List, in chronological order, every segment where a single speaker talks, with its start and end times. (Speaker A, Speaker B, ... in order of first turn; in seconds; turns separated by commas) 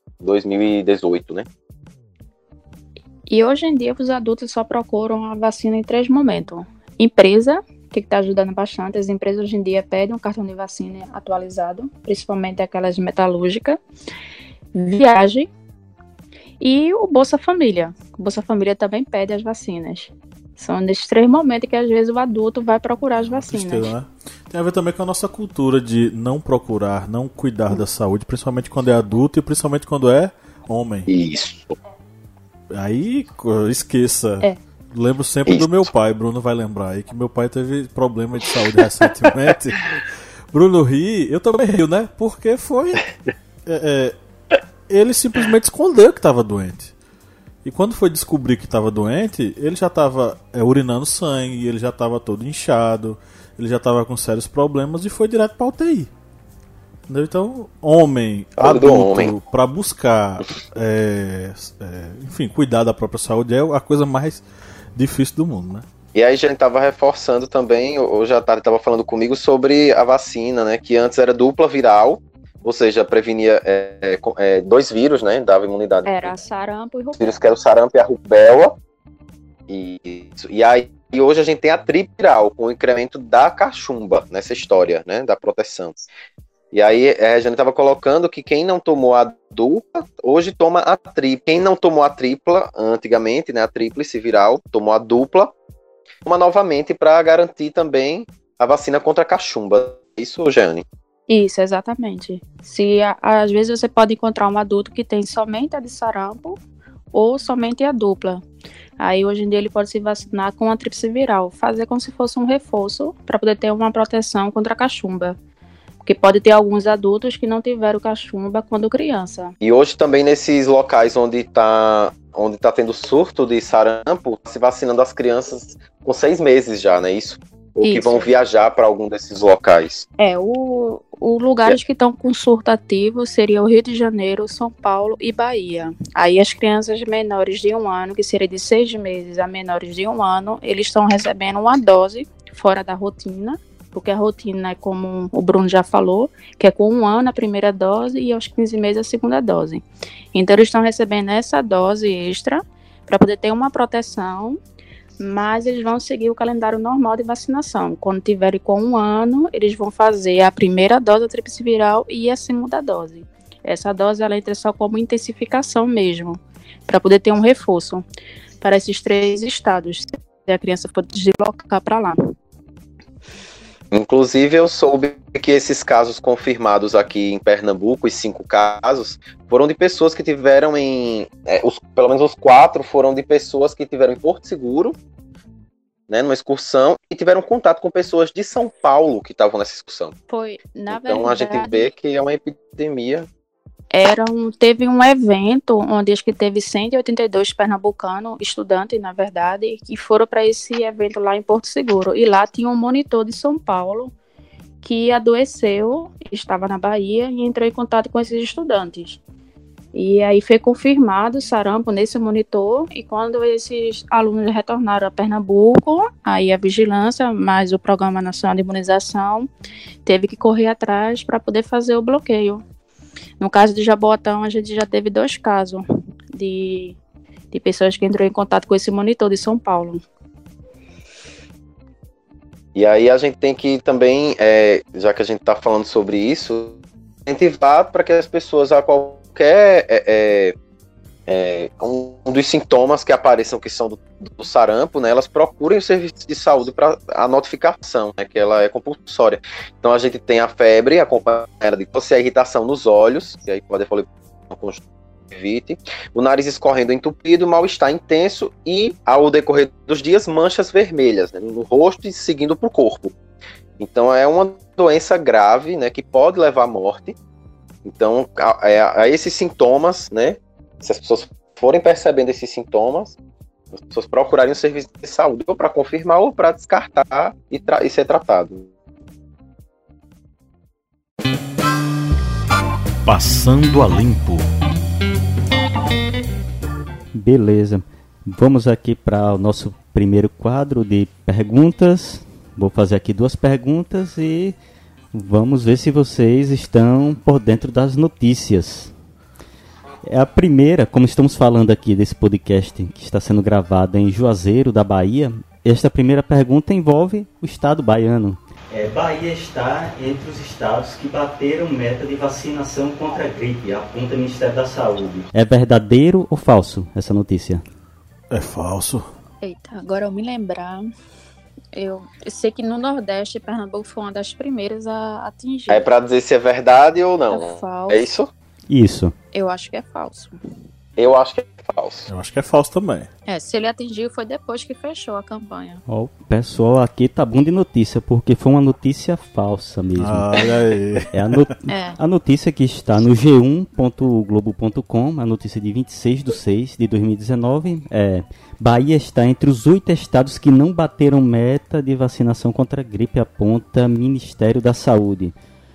Speaker A: 0.2-1.4, Speaker B: 3.3-13.8, Speaker B: 14.7-15.5, Speaker B: 16.6-23.9, Speaker C: 23.2-31.1, Speaker A: 31.1-31.8, Speaker C: 32.7-40.0, Speaker A: 35.5-35.8, Speaker C: 40.5-43.0, Speaker C: 43.6-44.1, Speaker C: 44.9-46.9, Speaker C: 47.6-56.1, Speaker C: 57.1-64.4, Speaker A: 58.6-59.3, Speaker C: 64.9-65.8, Speaker A: 66.1-76.3, Speaker B: 76.0-77.2, Speaker A: 77.2-78.8, Speaker A: 79.7-86.0, Speaker A: 86.7-95.5, Speaker A: 96.2-100.8, Speaker B: 101.3-106.6, Speaker B: 107.1-108.4, Speaker B: 109.0-115.4, Speaker B: 116.0-119.5, Speaker A: 119.6-130.1, Speaker B: 127.8-128.3, Speaker B: 130.2-154.6, Speaker B: 155.2-168.0, Speaker B: 168.6-172.2, Speaker A: 173.9-184.9, Speaker A: 186.1-190.1, Speaker B: 190.3-191.9, Speaker A: 190.9-193.3, Speaker B: 193.9-204.1, Speaker B: 204.8-209.2, Speaker B: 209.9-219.5, Speaker B: 220.0-222.6, Speaker B: 223.4-225.8, Speaker B: 226.3-227.0, Speaker B: 227.5-230.0, Speaker A: 232.7-240.5, Speaker A: 241.3-263.1, Speaker A: 263.8-267.1, Speaker A: 267.8-273.2, Speaker A: 273.7-278.7, Speaker C: 283.1-284.4, Speaker D: 287.1-294.5, Speaker D: 295.1-298.9, Speaker D: 300.0-317.6, Speaker C: 318.3-319.0, Speaker B: 319.4-320.8, Speaker B: 321.7-325.8, Speaker A: 325.7-328.3, Speaker B: 327.3-328.1, Speaker D: 328.7-329.1, Speaker B: 329.3-330.3, Speaker A: 331.0-332.1, Speaker C: 332.1-333.1, Speaker B: 333.3-335.8, Speaker D: 335.9-340.3, Speaker C: 340.0-341.5, Speaker D: 341.1-355.3, Speaker B: 341.7-342.0